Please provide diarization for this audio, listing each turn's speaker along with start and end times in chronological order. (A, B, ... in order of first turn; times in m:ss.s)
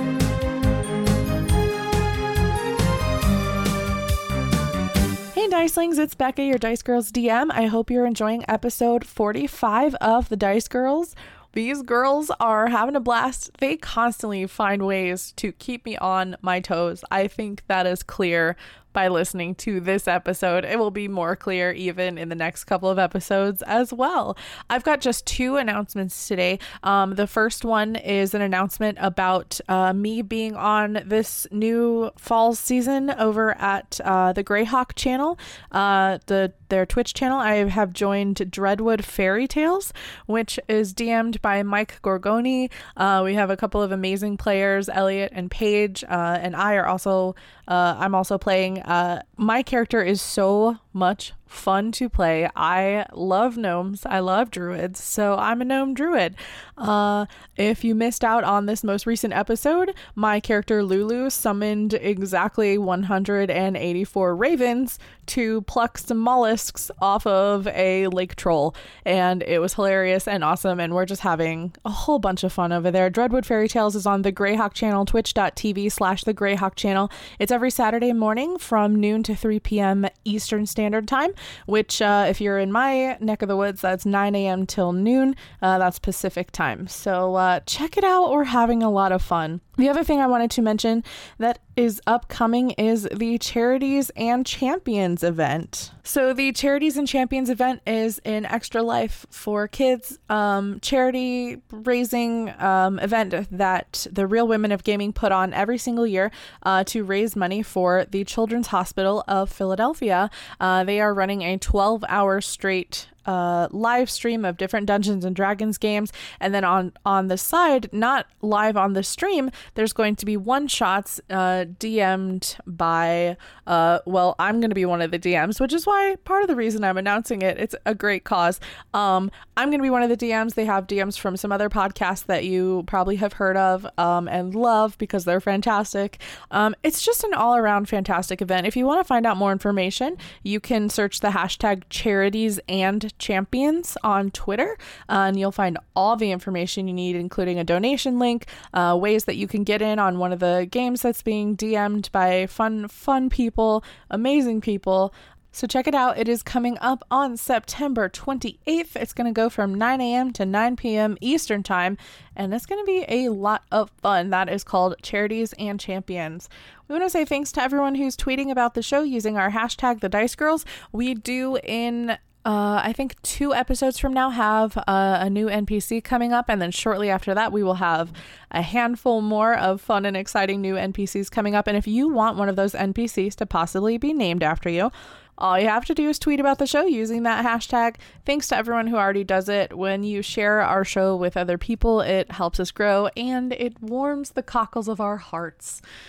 0:05.3-3:15.8 A